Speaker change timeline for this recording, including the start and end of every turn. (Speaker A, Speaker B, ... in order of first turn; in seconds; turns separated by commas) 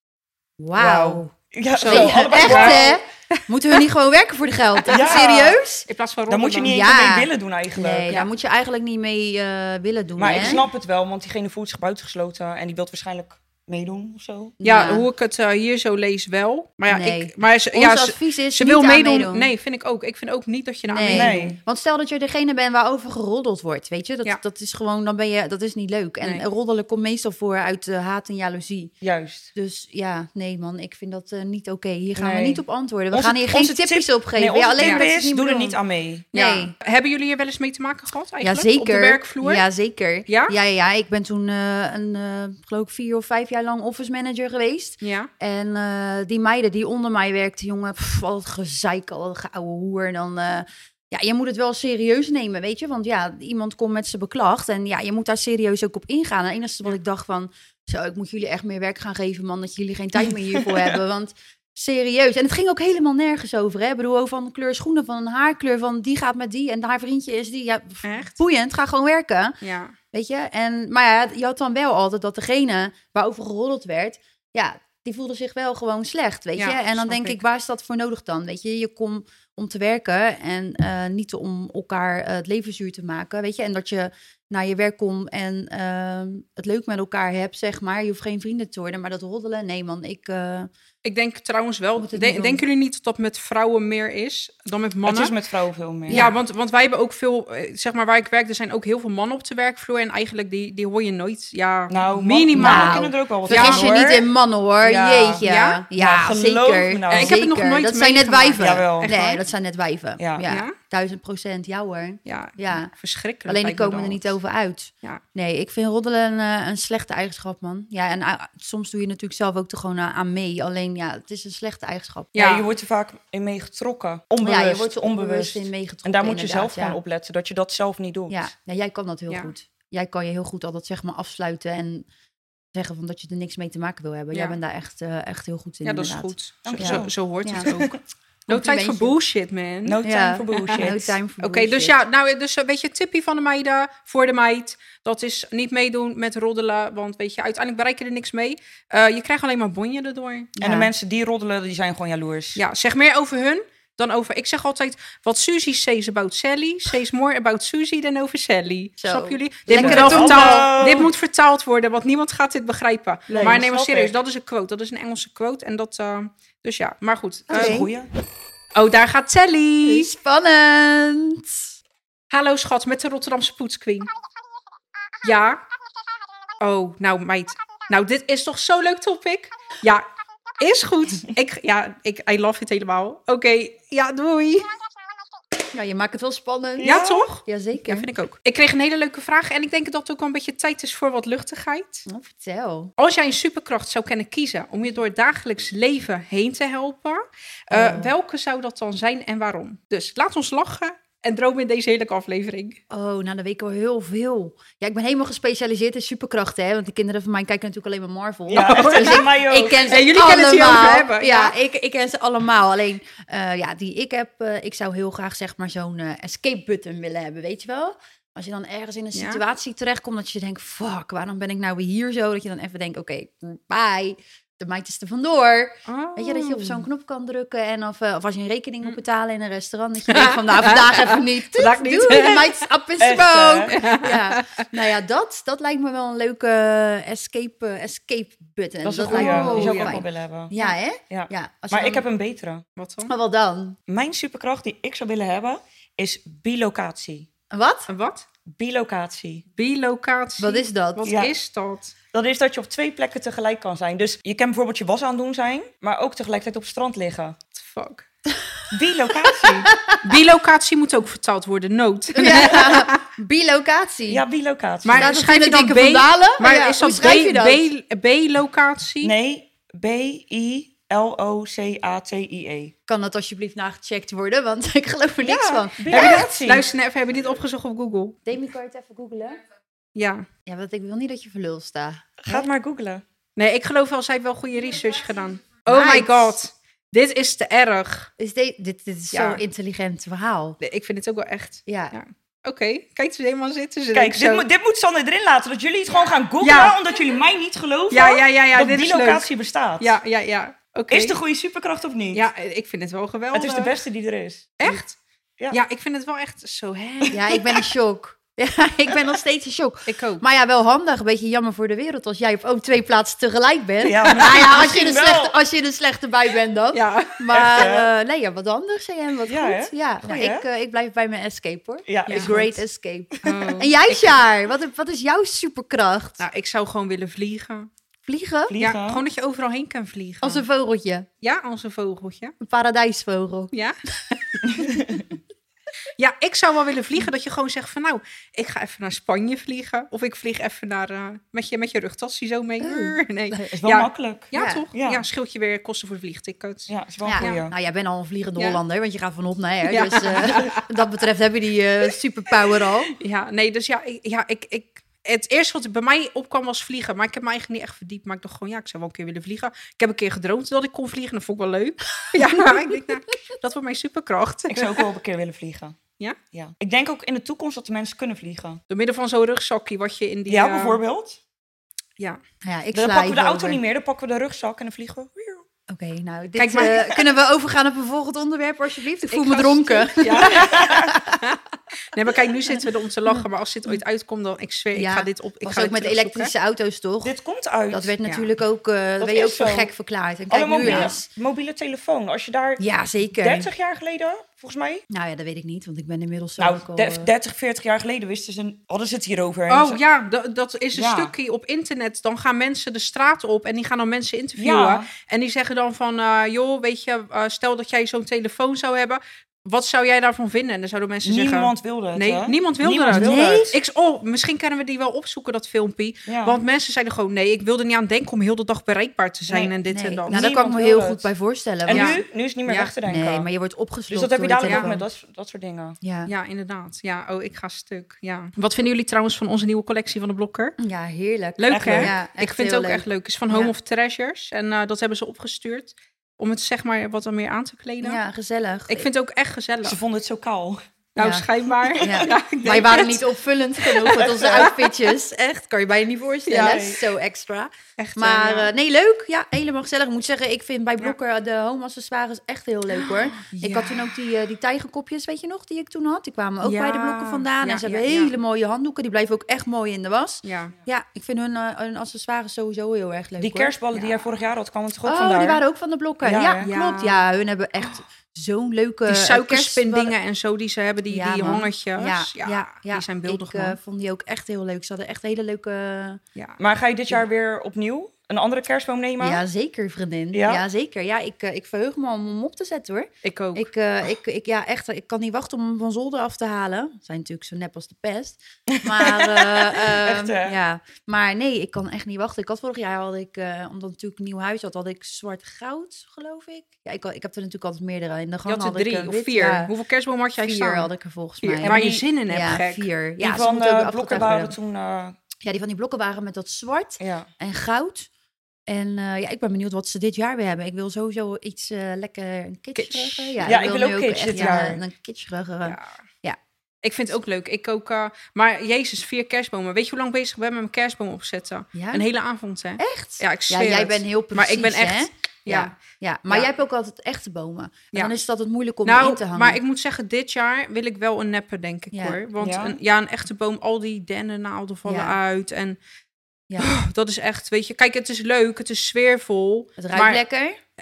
Speaker A: 0.6-1.3, Speaker B: 0.8-3.0, Speaker C: 1.7-2.9, Speaker A: 1.8-5.8, Speaker C: 4.8-5.3, Speaker B: 4.9-5.6, Speaker C: 5.9-6.8, Speaker B: 6.3-8.1, Speaker A: 6.6-10.7, Speaker B: 10.2-14.6, Speaker A: 14.6-15.1, Speaker C: 14.6-21.4, Speaker A: 16.9-19.5, Speaker A: 20.9-28.9, Speaker B: 21.1-21.6, Speaker B: 29.0-29.5, Speaker A: 29.5-35.8, Speaker B: 32.1-36.3, Speaker C: 34.8-35.1, Speaker A: 36.3-36.7, Speaker C: 36.3-39.6, Speaker A: 38.4-69.6, Speaker C: 40.3-40.5, Speaker C: 45.0-45.3, Speaker C: 68.0-68.4, Speaker C: 69.6-70.0, Speaker A: 70.1-90.7, Speaker C: 76.6-77.4, Speaker C: 91.0-95.3, Speaker A: 92.0-92.6, Speaker B: 95.0-96.3, Speaker A: 96.1-96.4, Speaker C: 96.1-103.9, Speaker B: 101.9-104.3, Speaker A: 102.5-112.9, Speaker B: 104.8-105.4, Speaker C: 105.4-105.8, Speaker B: 106.0-107.4, Speaker C: 107.1-109.4, Speaker B: 108.6-109.1, Speaker B: 110.2-110.5, Speaker C: 110.5-110.7, Speaker C: 112.2-114.3, Speaker A: 113.5-122.3, Speaker C: 122.3-122.7, Speaker B: 122.3-128.4, Speaker A: 124.4-127.0, Speaker A: 128.3-132.1, Speaker A: 132.7-137.7, Speaker C: 134.3-134.6, Speaker C: 135.8-140.0, Speaker B: 136.6-137.1, Speaker B: 137.6-137.9, Speaker A: 138.5-139.2, Speaker B: 139.8-141.2, Speaker A: 140.0-142.0, Speaker C: 140.6-140.8, Speaker C: 141.4-150.5, Speaker A: 150.6-150.9, Speaker B: 150.6-152.6, Speaker C: 152.6-167.8, Speaker A: 159.0-160.7, Speaker B: 159.7-161.1, Speaker A: 163.3-163.6, Speaker B: 163.3-164.1, Speaker A: 167.5-167.9, Speaker B: 167.5-168.1, Speaker C: 168.7-170.1, Speaker A: 169.8-171.7, Speaker C: 172.3-174.1, Speaker C: 175.2-175.6, Speaker C: 176.6-180.0, Speaker C: 180.6-184.7, Speaker A: 185.7-188.1, Speaker B: 186.8-187.3, Speaker C: 186.8-192.1, Speaker A: 192.1-192.9, Speaker C: 193.0-202.8, Speaker A: 197.7-198.1, Speaker A: 202.9-242.1, Speaker B: 208.5-209.9, Speaker C: 208.5-209.3, Speaker C: 209.8-211.5, Speaker C: 219.1-219.4, Speaker C: 225.9-226.8, Speaker C: 230.1-232.5, Speaker B: 233.0-233.8, Speaker C: 233.7-234.6, Speaker B: 238.8-240.5, Speaker C: 239.1-240.0, Speaker B: 241.1-242.6, Speaker C: 242.8-243.1, Speaker A: 243.1-243.8, Speaker B: 243.9-247.3, Speaker A: 247.5-247.9, Speaker C: 247.9-248.2, Speaker B: 248.5-249.4, Speaker C: 249.6-251.9, Speaker A: 250.4-251.0, Speaker B: 251.0-251.3, Speaker B: 252.1-257.4, Speaker C: 257.5-258.1, Speaker A: 258.3-258.6, Speaker B: 258.7-259.7, Speaker A: 259.2-260.0, Speaker C: 260.0-263.0, Speaker A: 262.1-264.2, Speaker B: 264.1-265.1, Speaker C: 264.8-269.1, Speaker A: 264.9-267.6, Speaker B: 269.0-272.7, Speaker A: 272.9-276.3, Speaker B: 275.2-276.6, Speaker C: 275.9-278.2, Speaker A: 278.2-279.4, Speaker C: 279.9-280.2, Speaker A: 280.4-282.5, Speaker B: 282.2-283.0, Speaker C: 283.4-288.1, Speaker A: 285.7-286.4, Speaker A: 288.2-290.6, Speaker C: 289.1-289.4, Speaker C: 290.6-294.4, Speaker A: 291.7-291.9, Speaker B: 293.9-299.9, Speaker C: 296.4-296.8, Speaker C: 297.9-299.2, Speaker C: 299.8-301.1, Speaker B: 300.9-302.2, Speaker C: 302.1-303.8, Speaker B: 303.3-304.7, Speaker C: 304.6-305.0, Speaker C: 305.5-307.3, Speaker A: 307.1-326.2, Speaker C: 309.9-310.2, Speaker B: 313.8-315.4, Speaker C: 316.7-317.2, Speaker B: 317.3-317.9, Speaker B: 319.3-320.4, Speaker B: 321.9-322.6, Speaker C: 323.2-324.1, Speaker C: 326.2-327.7, Speaker A: 328.0-328.5, Speaker B: 328.5-329.0, Speaker C: 328.6-330.4, Speaker A: 330.2-331.1, Speaker C: 331.2-332.4, Speaker A: 332.4-333.5, Speaker C: 333.5-334.4, Speaker B: 334.5-335.0, Speaker C: 336.0-347.4, Speaker A: 342.6-343.5, Speaker B: 343.5-345.0, Speaker A: 344.3-344.6, Speaker B: 346.7-347.5, Speaker A: 347.0-352.9, Speaker C: 349.7-350.6, Speaker C: 353.0-364.8, Speaker A: 362.1-362.8, Speaker B: 364.5-365.8, Speaker B: 366.3-368.6, Speaker C: 368.7-370.8, Speaker B: 370.3-371.2, Speaker A: 372.4-373.6, Speaker B: 372.7-375.4, Speaker A: 375.7-381.2, Speaker C: 376.4-376.9, Speaker C: 379.1-381.4, Speaker B: 380.1-380.9, Speaker C: 381.9-386.3, Speaker A: 383.1-383.8, Speaker A: 384.7-387.1, Speaker B: 387.0-387.9, Speaker A: 387.7-391.1, Speaker B: 389.0-389.7, Speaker B: 390.3-392.6, Speaker C: 390.6-390.9, Speaker A: 392.6-393.5, Speaker B: 393.2-394.8, Speaker A: 394.9-397.1, Speaker B: 396.4-399.8, Speaker C: 399.5-420.2, Speaker B: 400.7-401.1, Speaker B: 404.4-404.9, Speaker B: 411.0-413.5, Speaker A: 412.9-413.5, Speaker B: 416.1-416.4, Speaker A: 419.7-422.0, Speaker B: 420.1-421.1, Speaker B: 421.6-423.3, Speaker C: 421.7-422.7, Speaker A: 422.8-424.9, Speaker B: 423.9-425.8, Speaker C: 424.4-424.7, Speaker A: 425.8-426.1, Speaker C: 426.1-430.6, Speaker A: 430.6-433.5, Speaker C: 431.4-438.0, Speaker B: 431.5-431.9, Speaker A: 437.8-438.9, Speaker C: 438.7-439.8, Speaker B: 439.6-440.6, Speaker C: 440.9-442.9, Speaker A: 441.0-441.3, Speaker B: 441.7-443.0, Speaker A: 441.8-463.5, Speaker C: 443.8-444.5, Speaker B: 443.8-444.5, Speaker C: 446.3-446.6, Speaker B: 446.3-446.8, Speaker C: 447.8-448.5, Speaker C: 452.8-453.8, Speaker C: 456.4-458.1, Speaker C: 460.2-460.5, Speaker B: 463.2-465.4, Speaker A: 464.9-469.9, Speaker B: 466.0-466.5, Speaker C: 466.4-467.0, Speaker C: 468.9-473.6, Speaker A: 470.9-476.0, Speaker B: 476.4-479.2, Speaker A: 479.0-499.5, Speaker B: 480.1-480.4, Speaker C: 483.0-483.5, Speaker B: 488.5-490.4, Speaker C: 498.2-500.7, Speaker A: 500.2-504.4, Speaker C: 501.2-502.7, Speaker B: 501.4-501.8, Speaker B: 503.0-504.9, Speaker A: 505.2-507.9, Speaker B: 506.8-507.1, Speaker A: 508.5-516.2, Speaker C: 512.5-513.2, Speaker B: 513.2-514.6, Speaker C: 514.1-514.4, Speaker C: 515.4-515.8, Speaker C: 516.6-525.5, Speaker A: 521.5-521.9, Speaker A: 522.6-529.4, Speaker C: 528.6-535.6, Speaker A: 531.7-532.0, Speaker B: 532.2-532.6, Speaker A: 534.6-535.0, Speaker C: 536.4-540.0, Speaker A: 539.6-540.4